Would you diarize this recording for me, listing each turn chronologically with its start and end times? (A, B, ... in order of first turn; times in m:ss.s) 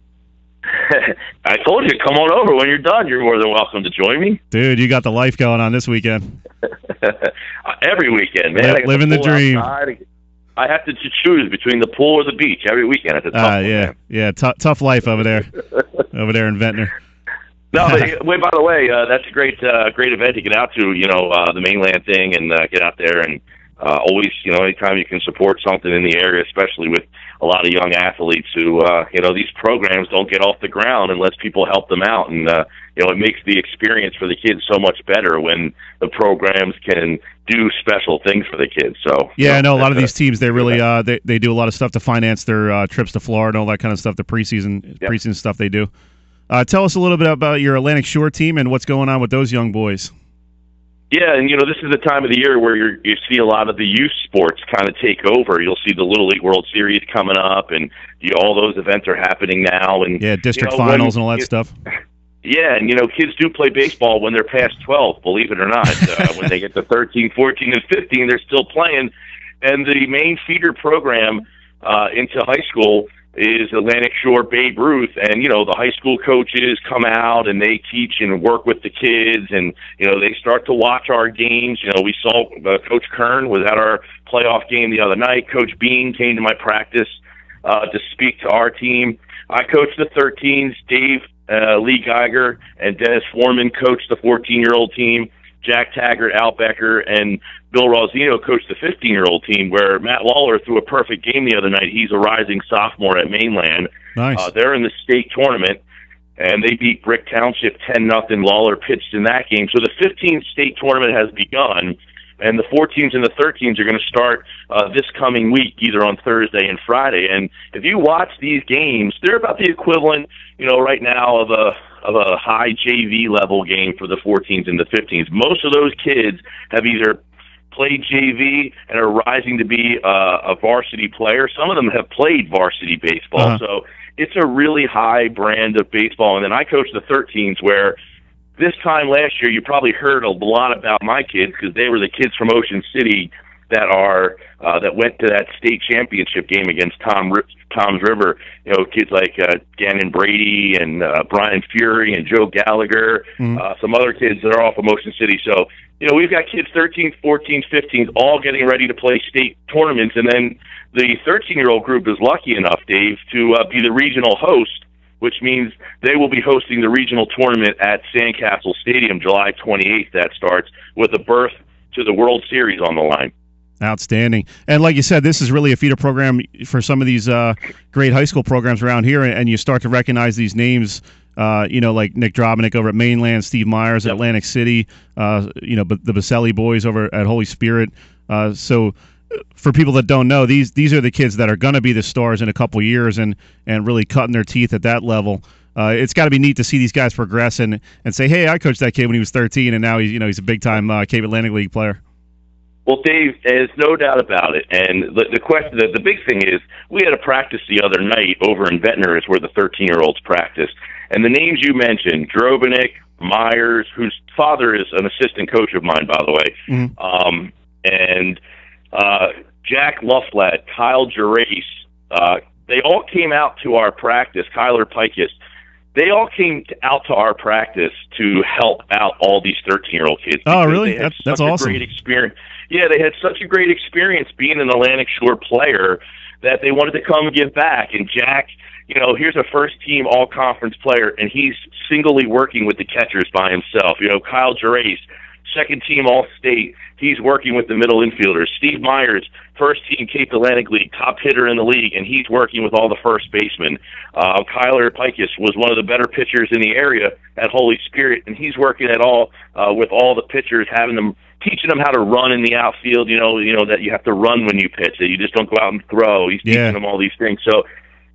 0:00.7-0:04.4 A
0:04.5-0:06.4 B
0:06.9-0:10.0 A
0:08.6-0:09.7 B
0:10.6-0:13.9 A
0:13.3-0:15.6 B
0:16.1-0:16.9 B
0:17.7-0:40.1 A
0:39.4-0:45.9 B
0:46.5-0:50.1 B
0:51.1-1:01.3 A
1:00.2-1:01.7 B
1:02.4-1:45.8 A
1:44.2-1:44.5 B
1:46.4-2:07.2 A
2:07.7-2:18.0 A
2:18.6-2:53.3 A
2:53.8-3:08.9 B
3:09.6-3:22.0 B
3:22.9-3:38.4 A
3:38.9-3:45.4 A
3:46.0-4:27.6 A
3:50.5-3:51.8 B
4:26.4-4:26.8 B